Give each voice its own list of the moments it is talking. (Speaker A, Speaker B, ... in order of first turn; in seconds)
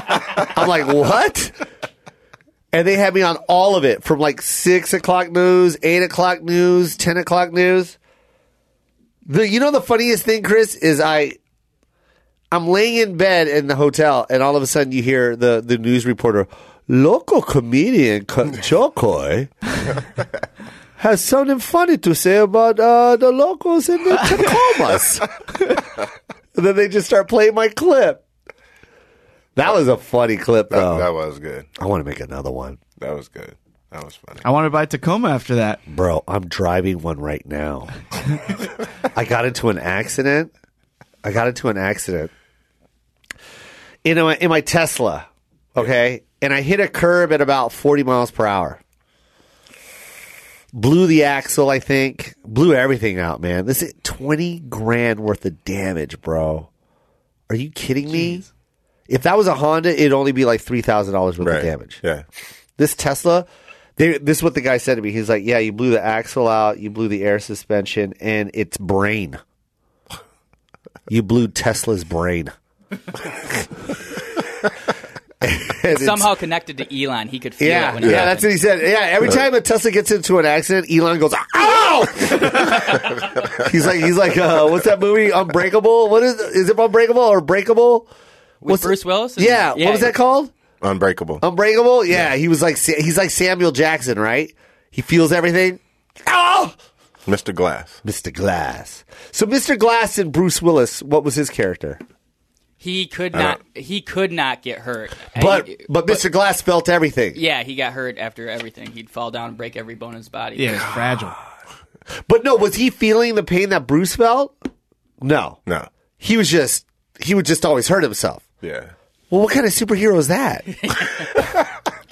Speaker A: 0.3-1.6, 2.7-8.0, 9.2-11.4, 12.5-19.5, 21.0-25.3, 26.5-28.2, 29.6-31.1, 31.8-32.8, 35.9-37.9, 39.1-40.5, 41.2-42.3, 44.0-48.8, 50.7-56.7, 57.5-58.4, 59.1-62.0, 62.8-69.4, 71.1-72.5, 75.4-76.3, 77.6-88.1, 88.6-90.5, 91.4-96.8, 98.0-102.0, 105.3-107.4, 112.2-114.5, 115.2-115.6, 116.2-118.4, 119.3-120.6
Speaker B: 30.7-31.7, 33.0-34.4, 61.4-62.2, 90.8-91.4, 97.2-98.0, 118.6-118.9
Speaker C: 34.4-35.8, 110.5-111.4
Speaker D: 75.9-78.5, 88.6-90.2, 102.8-106.2, 107.3-110.9, 120.8-121.3